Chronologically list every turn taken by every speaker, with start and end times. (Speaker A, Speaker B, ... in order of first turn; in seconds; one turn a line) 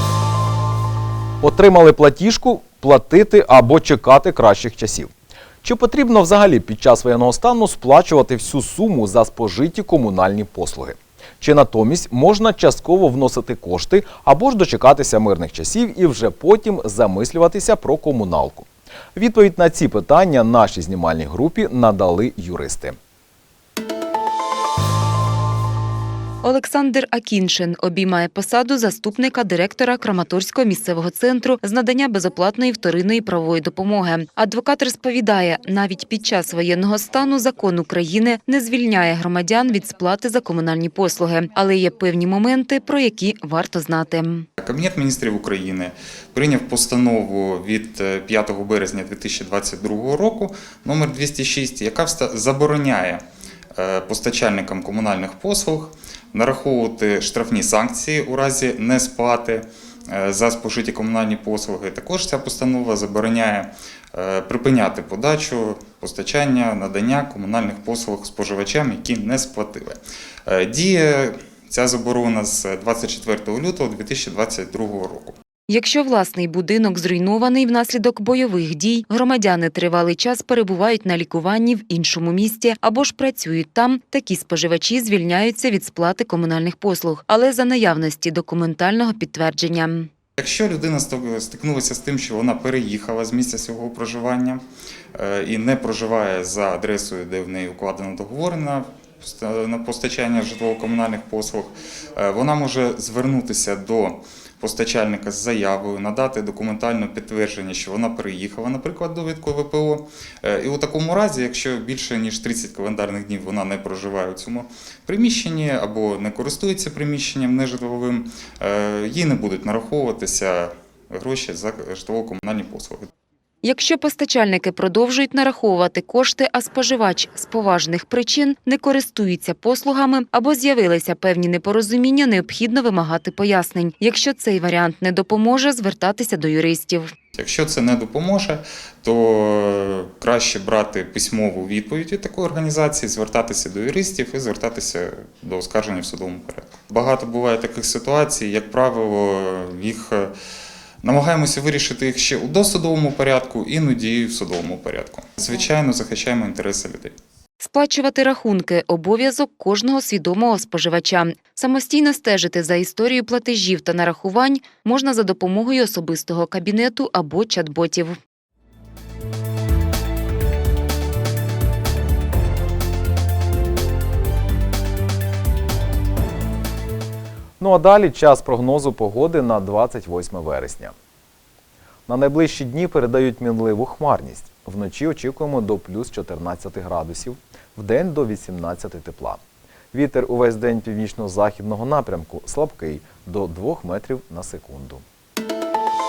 Speaker A: 1.4-5.1
Speaker A: 5.6-22.9
Speaker B: 26.4-44.5
Speaker C: 44.6-53.2
Speaker C: 53.8-75.3
Speaker B: 75.7-90.1
Speaker C: 90.4-94.6
Speaker C: 95.2-123.0
Speaker B: 123.6-137.1
Speaker C: 137.3-150.3
Speaker C: 151.0-157.1
Speaker B: 157.6-168.2
Speaker A: 177.6-180.9
Speaker A: 182.1-189.4
Speaker A: 189.9-195.0